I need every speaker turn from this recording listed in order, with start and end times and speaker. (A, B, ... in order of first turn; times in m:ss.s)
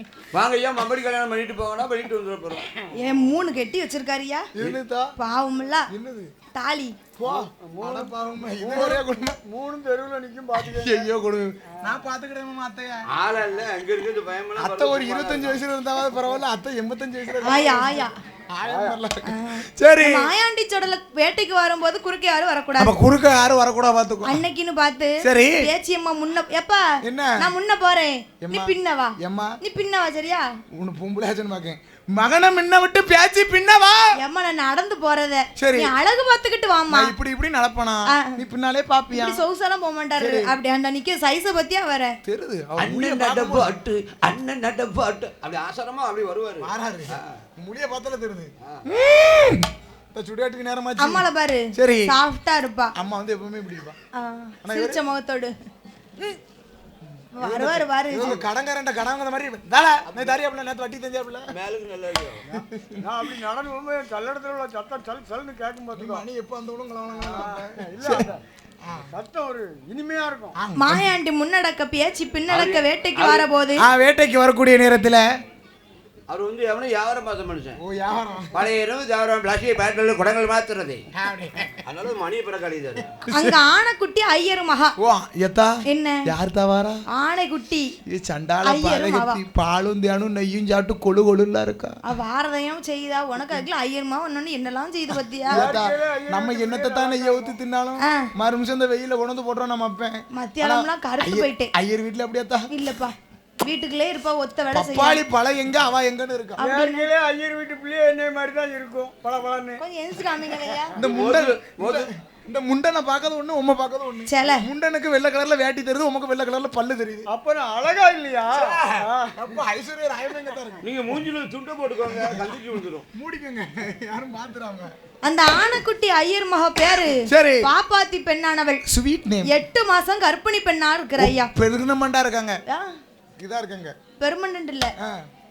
0:00.3-0:02.7 A
0:02.9-0:04.4 B
0:04.6-0:05.1 C
0:05.2-0:05.9 B
0:05.9-0:06.3 C
0:06.5-0:07.0 B
0:07.2-0:09.4 C
0:07.2-0:08.1 A
0:08.6-0:09.0 D
0:09.5-0:11.0 D
0:10.6-0:13.0 C
0:13.1-0:15.6 A
0:14.6-0:20.3 C
0:17.4-0:18.1 B
0:18.7-0:19.0 A
0:19.3-0:22.9 B
0:22.8-0:24.4 C
0:24.2-0:26.8 B
0:25.2-0:25.6 C
0:27.0-0:27.4 C
0:27.4-0:30.4 B
0:28.4-0:29.6 C
0:30.8-0:34.0 C
0:34.2-0:37.1 B
0:35.6-0:35.9 C
0:36.9-0:39.4 C
0:39.1-0:42.1 B
0:40.2-0:40.5 C
0:42.2-0:43.7 C
0:42.8-0:47.4 A
0:46.6-0:52.2 C
0:51.0-0:52.9 B
0:53.0-0:54.0 C
0:54.2-0:55.5 B
0:54.6-0:55.0 C
0:57.2-1:01.5 C
0:57.4-0:58.4 B
1:01.5-1:02.4 A
1:02.5-1:03.0 C
1:03.0-1:06.2 D
1:05.9-1:08.3 C
1:07.2-1:07.6 A
1:07.4-1:08.4 D
1:09.1-1:10.5 D
1:10.6-1:11.1 C
1:10.8-1:13.8 B
1:12.5-1:13.4 A
1:13.8-1:15.2 C
1:16.3-1:17.8 A
1:17.8-1:18.7 C
1:18.5-1:21.0 A
1:21.2-1:21.8 C
1:21.8-1:23.2 A
1:23.2-1:23.6 C
1:23.3-1:24.9 B
1:25.0-1:27.0 C
1:25.9-1:26.2 B
1:27.1-1:27.8 B
1:28.1-1:31.9 C
1:28.6-1:29.4 B
1:32.1-1:35.7 B
1:35.5-1:42.7 C
1:35.6-1:37.5 D
1:38.0-1:38.3 B
1:40.3-1:41.7 B
1:42.7-1:45.2 B
1:44.7-1:46.6 C
1:46.6-1:47.1 B
1:46.6-1:49.8 D
1:49.8-1:51.0 B
1:51.0-1:57.2 C
1:51.0-1:52.1 A
1:54.3-1:54.6 B
1:57.3-1:59.3 D
1:58.5-2:00.8 C
2:00.8-2:03.0 A
2:03.1-2:04.9 C
2:05.2-2:08.8 B
2:07.0-2:07.6 C
2:08.9-2:09.5 C
2:09.5-2:11.5 B
2:11.2-2:12.6 C
2:13.4-2:13.9 C
2:14.2-2:14.9 B